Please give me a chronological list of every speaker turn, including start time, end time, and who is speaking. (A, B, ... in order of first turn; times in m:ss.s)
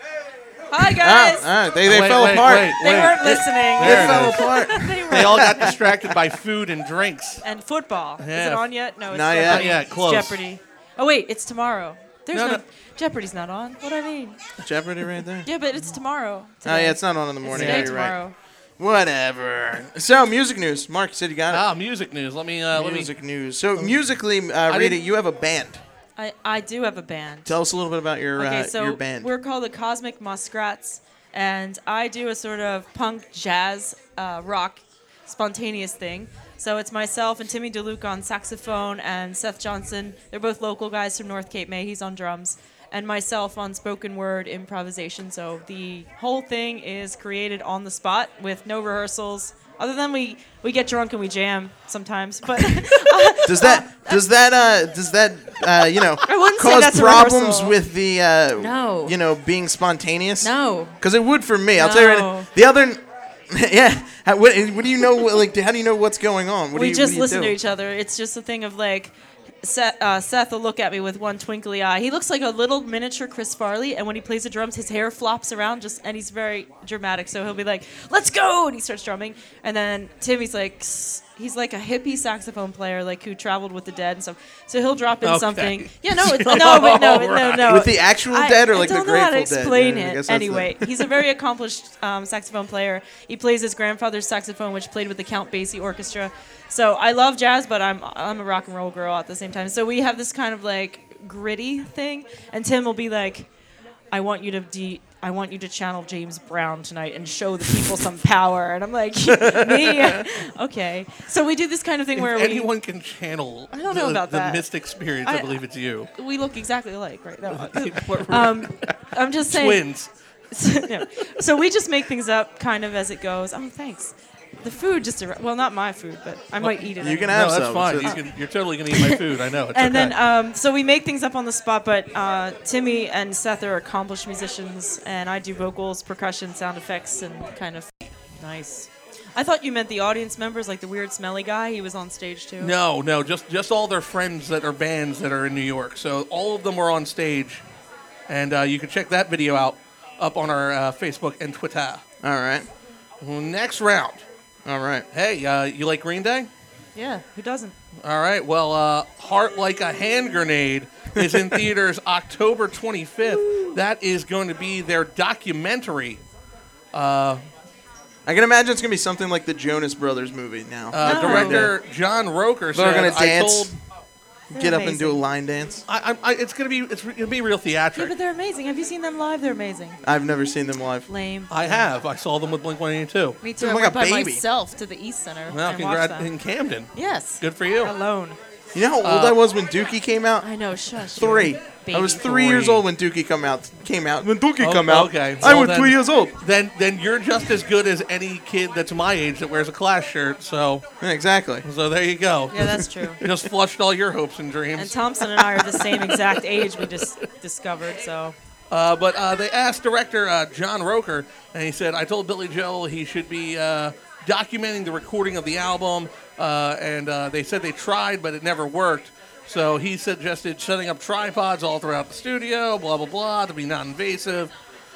0:00.7-0:01.5 A
0:00.8-0:02.8 B
0:01.8-0:07.4 C
0:02.6-0:05.7 A
0:03.8-0:06.2 B
0:07.4-0:14.4 A
0:08.2-0:08.6 C
0:09.1-0:09.7 B
0:09.4-0:10.4 C
0:12.3-0:12.6 C
0:14.6-0:15.5 B
0:15.4-0:18.3 A
0:16.6-0:18.2 B
0:17.5-0:18.0 C
0:18.8-0:21.6 B
0:21.5-0:23.1 C
0:22.7-0:25.8 B
0:23.7-0:24.0 C
0:24.7-0:25.0 C
0:26.2-0:27.6 A
0:27.4-0:29.3 B
0:28.4-0:54.2 A
0:53.4-1:07.5 B
0:56.2-0:57.8 A
0:58.6-0:59.2 A
1:00.4-1:01.0 A
1:01.7-1:02.5 A
1:06.7-1:43.5 A
1:25.2-1:27.8 C
1:27.6-1:30.8 B
1:44.1-1:52.7 A
1:49.5-1:50.2 C
1:52.2-1:56.1 C
1:53.7-2:08.3 A
1:57.5-1:58.9 C
1:59.5-2:00.1 C
2:06.6-2:10.1 C
2:07.0-2:08.2 B
2:08.9-2:22.8 A
2:22.6-2:27.6 C
2:28.3-2:32.0 C
2:32.2-2:32.7 B
2:33.2-2:34.2 C
2:34.6-2:35.0 B
2:35.1-2:36.5 C
2:36.9-2:37.8 A
2:38.0-2:46.2 C
2:41.1-2:41.6 B
2:46.9-2:47.4 C
2:48.2-2:51.7 B
2:50.9-2:53.7 C
2:51.0-2:51.7 A
2:52.7-2:53.7 B
2:54.5-2:55.2 A
2:54.5-2:55.8 B
2:55.9-2:58.1 C
2:57.9-3:00.0 A
3:00.0-3:01.1 B
3:01.1-3:01.9 A
3:01.5-3:03.4 C
3:03.4-3:06.3 A
3:03.6-3:04.4 B
3:05.5-3:07.9 C
3:06.9-3:08.4 A
3:08.7-3:10.5 B
3:09.0-3:09.4 C
3:10.4-3:12.5 A
3:11.1-3:16.4 B
3:12.2-3:12.8 C
3:14.6-3:20.8 C
3:21.0-3:21.6 B
3:21.6-3:27.0 C
3:22.5-3:23.2 A
3:24.7-3:28.3 A
3:28.7-3:44.5 C